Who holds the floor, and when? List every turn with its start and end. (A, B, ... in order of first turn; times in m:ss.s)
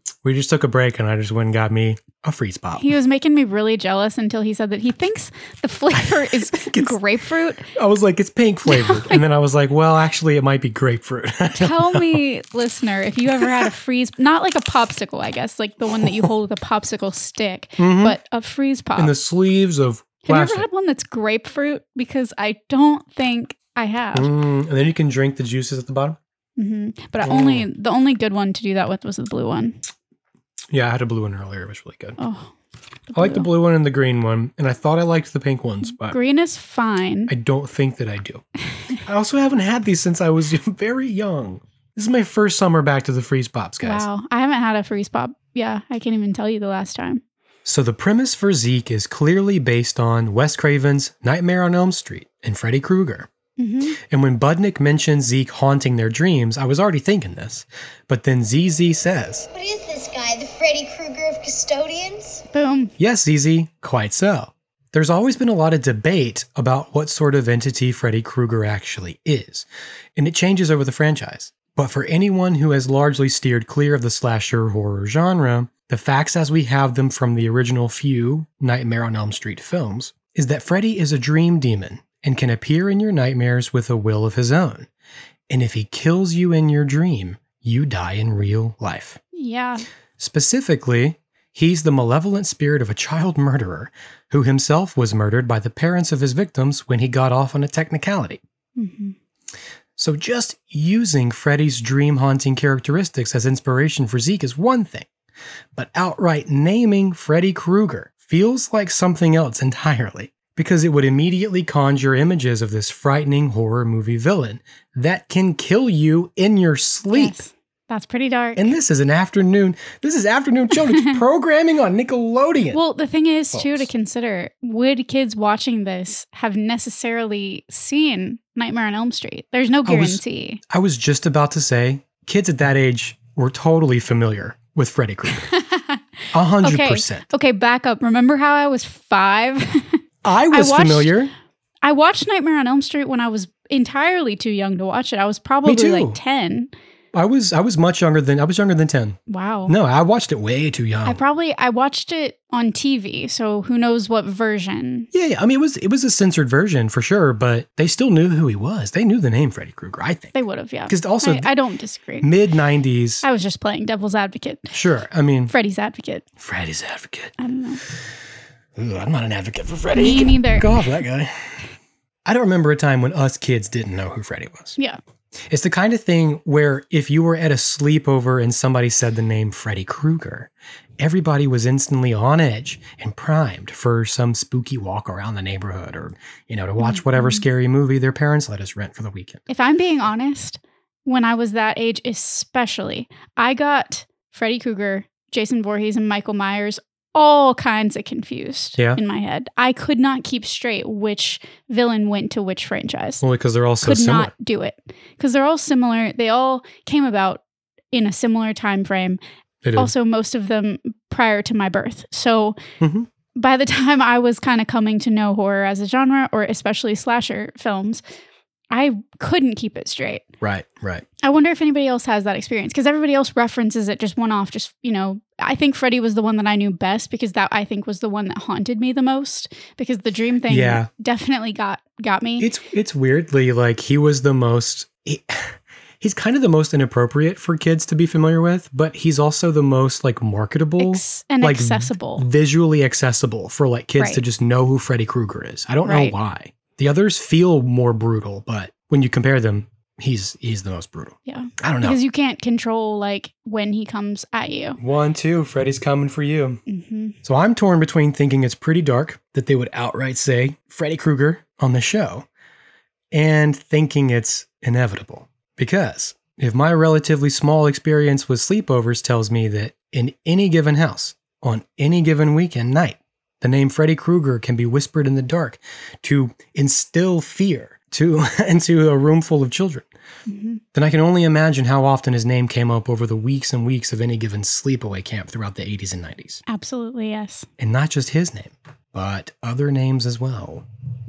0:00.2-0:02.9 A
0:02.8-0:07.7 B
0:05.9-0:07.0 A
0:07.7-0:12.2 A
0:08.7-0:09.2 B
0:11.6-0:19.1 B
0:13.4-0:13.7 A
0:16.0-0:16.3 A
0:17.8-0:18.2 A
0:19.0-0:20.7 A
0:20.2-0:24.3 B
0:24.1-0:26.2 A
0:26.6-0:29.8 B
0:27.2-0:27.7 A
0:30.7-0:32.2 A
0:32.2-0:32.5 B
0:33.1-0:33.5 B
0:33.1-0:36.2 A
0:36.0-0:37.3 B
0:37.3-0:38.4 A
0:39.0-0:44.1 A
0:43.8-0:47.2 B
0:47.6-0:53.3 A
0:53.6-0:54.0 B
0:54.0-0:59.5 A
0:59.5-1:02.4 C
1:02.5-1:02.9 B
1:03.0-1:24.9 A
1:25.5-1:29.2 A
1:29.3-1:29.9 B
1:30.2-1:38.4 A
1:38.8-1:39.2 B
1:40.0-1:45.1 A
1:45.8-1:57.4 A
1:57.1-1:58.8 B
1:58.6-2:02.8 A
2:02.7-2:10.6 B
2:03.5-2:03.9 A
2:09.9-2:15.5 A
2:15.4-2:16.0 B
2:16.3-2:17.3 A
2:16.6-2:21.2 B
2:20.2-2:21.3 A
2:21.8-2:26.7 B
2:25.6-2:26.2 A
2:27.1-2:31.2 A
2:29.3-2:29.7 B
2:31.0-2:35.1 B
2:35.1-2:40.4 A
2:40.3-2:42.3 B
2:40.9-2:41.5 A
2:42.2-2:43.2 A
2:43.2-2:44.7 B
2:44.7-2:45.5 A
2:45.5-2:46.2 B
2:46.4-2:47.3 A
2:47.4-2:47.8 B
2:48.8-2:51.5 A
2:49.9-2:50.7 B
2:52.2-2:54.8 A
2:55.5-3:09.5 A
3:06.8-3:07.4 B
3:09.5-3:23.2 B
3:23.2-3:24.3 A
3:23.8-3:29.2 B
3:29.6-3:29.9 A
3:29.8-3:32.6 B
3:32.8-3:33.1 A
3:33.4-3:38.0 B
3:38.7-3:40.3 B
3:40.4-3:41.1 A
3:41.2-3:52.5 B
3:50.5-3:50.9 A
3:52.4-4:12.0 A
4:00.8-4:02.3 B
4:05.8-4:06.2 B
4:11.3-4:14.8 B
4:14.8-4:16.6 A
4:16.7-4:17.2 B
4:17.2-4:22.3 A
4:23.1-4:39.9 A
4:40.3-4:40.6 B
4:40.7-4:46.4 A
4:46.5-4:47.5 B
4:47.6-4:50.7 A